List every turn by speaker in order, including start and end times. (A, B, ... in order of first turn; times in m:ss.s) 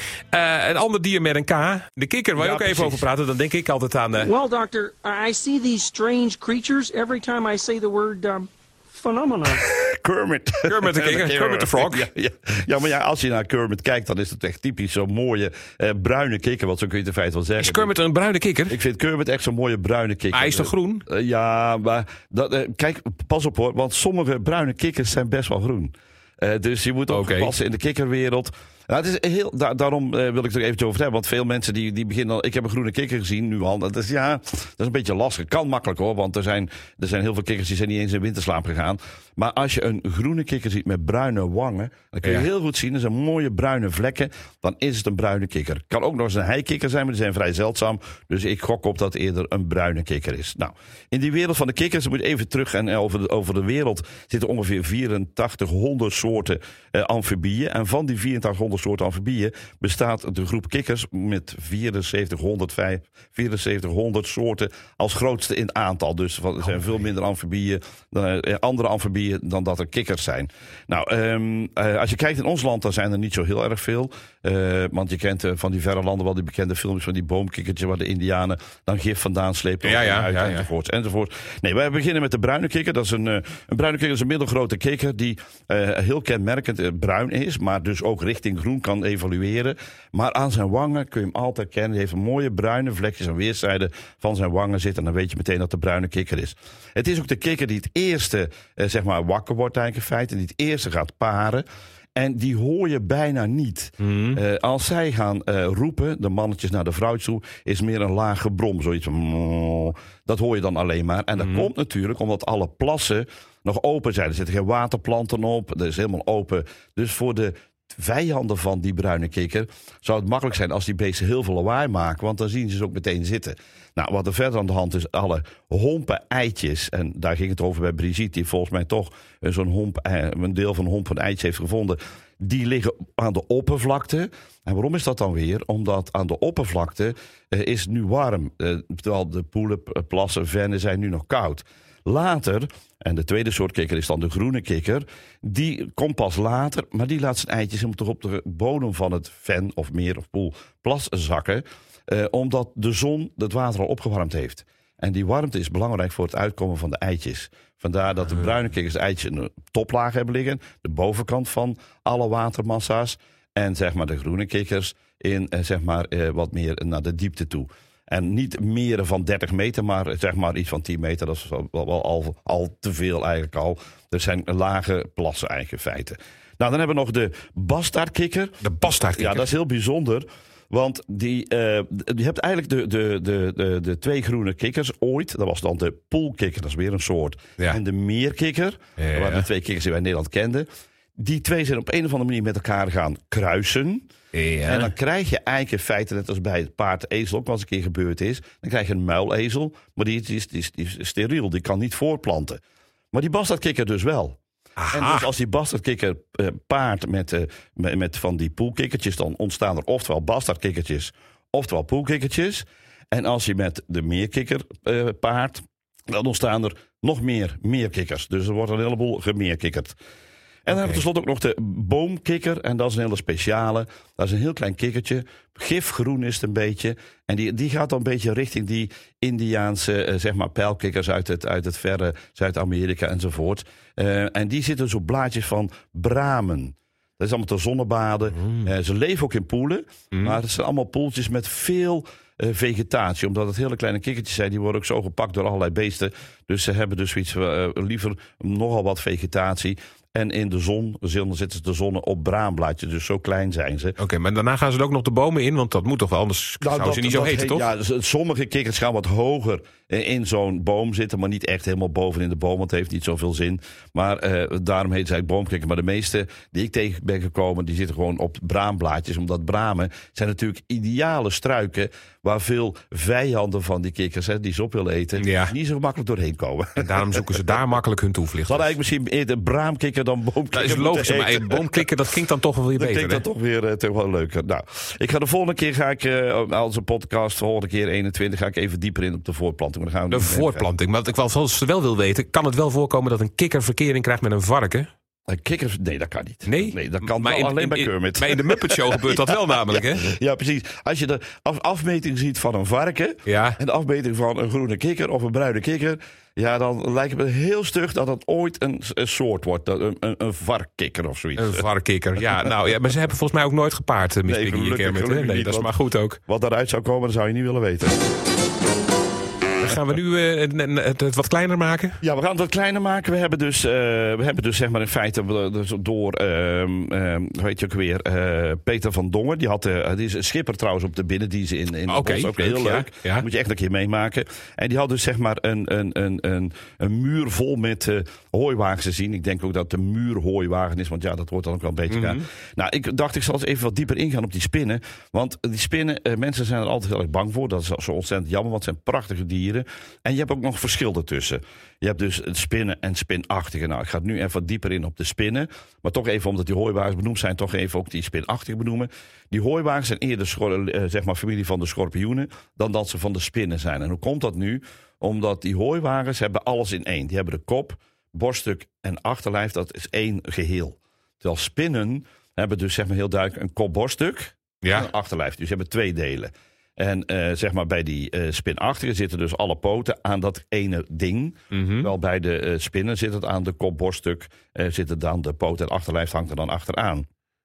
0:00.3-0:04.3 A
0:02.4-0:03.0 B
0:04.2-0:09.6 C
0:09.6-0:17.9 B
0:10.7-0:12.1 A
0:17.6-0:18.8 A
0:18.7-1:41.6 B
0:20.3-0:21.0 A
0:27.1-0:27.5 A
0:42.2-0:42.5 A
1:19.8-1:20.7 A
1:42.2-3:10.7 B
1:44.0-1:44.4 A
1:51.4-1:51.7 A
2:58.6-2:59.5 A
3:09.0-3:09.4 A
3:11.2-3:14.1 B
3:14.3-3:14.9 A
3:14.6-3:22.6 B
3:23.1-3:24.4 B
3:24.8-3:25.3 A
3:24.9-3:40.0 B
3:40.7-4:14.0 B
3:40.7-3:41.0 A
3:58.4-3:58.7 A
4:00.1-4:00.4 A
4:14.0-4:17.7 A
4:16.6-4:37.3 B
4:35.2-4:35.5 A
4:36.8-4:38.6 A
4:38.5-4:41.8 B
4:40.5-4:43.2 A
4:42.8-4:50.7 B
4:50.1-4:54.9 A
4:55.3-5:11.7 B
4:56.5-5:00.0 A
5:03.3-5:03.6 A
5:11.4-5:16.2 A
5:14.2-5:15.7 B
5:16.3-5:18.0 B
5:19.6-5:22.0 A
5:22.0-6:27.0 B
5:31.9-5:33.3 A
5:41.9-5:42.2 A
6:14.6-6:14.9 A
6:21.5-6:21.9 A